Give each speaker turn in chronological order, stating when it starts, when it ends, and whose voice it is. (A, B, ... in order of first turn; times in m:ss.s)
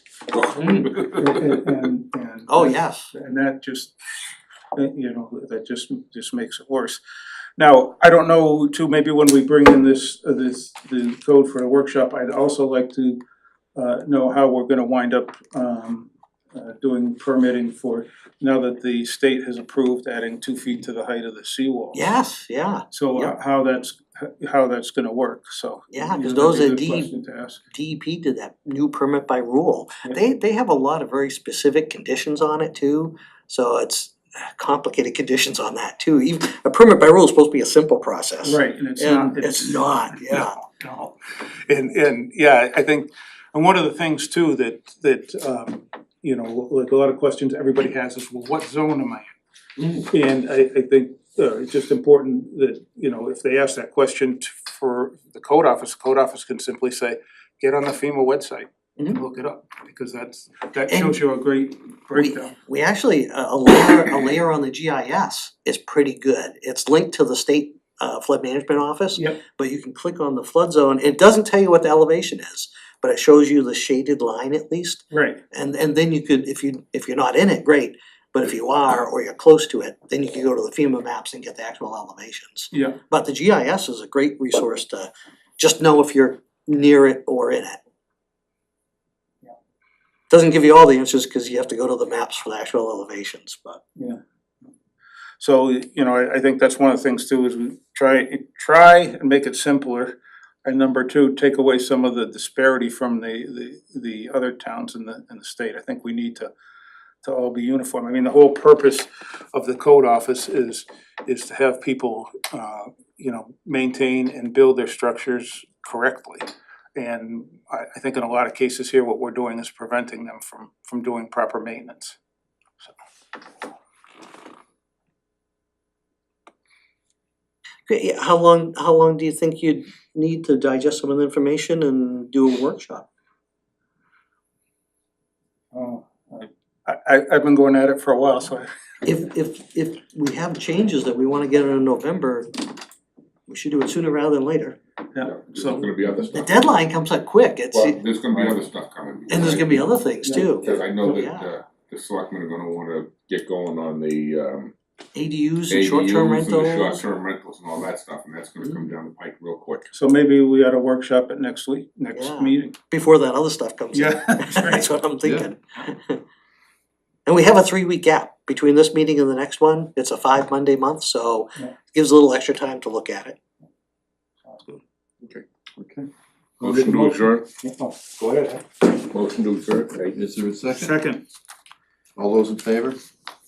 0:00.5-0:00.9 A
0:01.0-0:03.9 B
0:02.5-0:03.1 A
0:04.7-0:07.0 B
0:07.6-0:13.2 B
0:13.7-0:22.1 B
0:21.9-0:23.3 A
0:22.9-0:27.6 B
0:25.9-0:27.1 A
0:27.7-0:40.6 A
0:38.4-0:49.3 B
0:50.0-1:02.5 B
1:00.9-1:01.2 A
1:02.1-1:27.8 A
1:15.1-1:15.4 B
1:22.7-1:23.0 B
1:30.3-1:33.8 A
1:35.4-1:46.5 B
1:47.2-2:02.2 B
2:07.9-2:13.0 A
2:15.7-2:18.7 B
2:19.0-2:22.6 A
2:23.5-2:24.8 A
2:25.1-2:25.8 B
2:25.2-2:26.7 C
2:26.3-2:28.0 A
2:27.7-2:34.7 C
2:29.3-2:31.5 A
2:35.1-2:37.0 A
2:35.7-2:39.9 C
2:39.9-2:42.7 B
2:42.1-2:46.2 A
2:43.9-2:44.9 B
2:47.2-2:53.4 A
2:54.5-2:54.8 B
2:55.8-2:56.0 D
2:56.6-2:57.4 C
2:56.6-2:58.6 B
2:58.9-3:00.2 C
3:00.1-3:00.9 D
3:00.7-3:01.2 B
3:02.2-3:03.0 D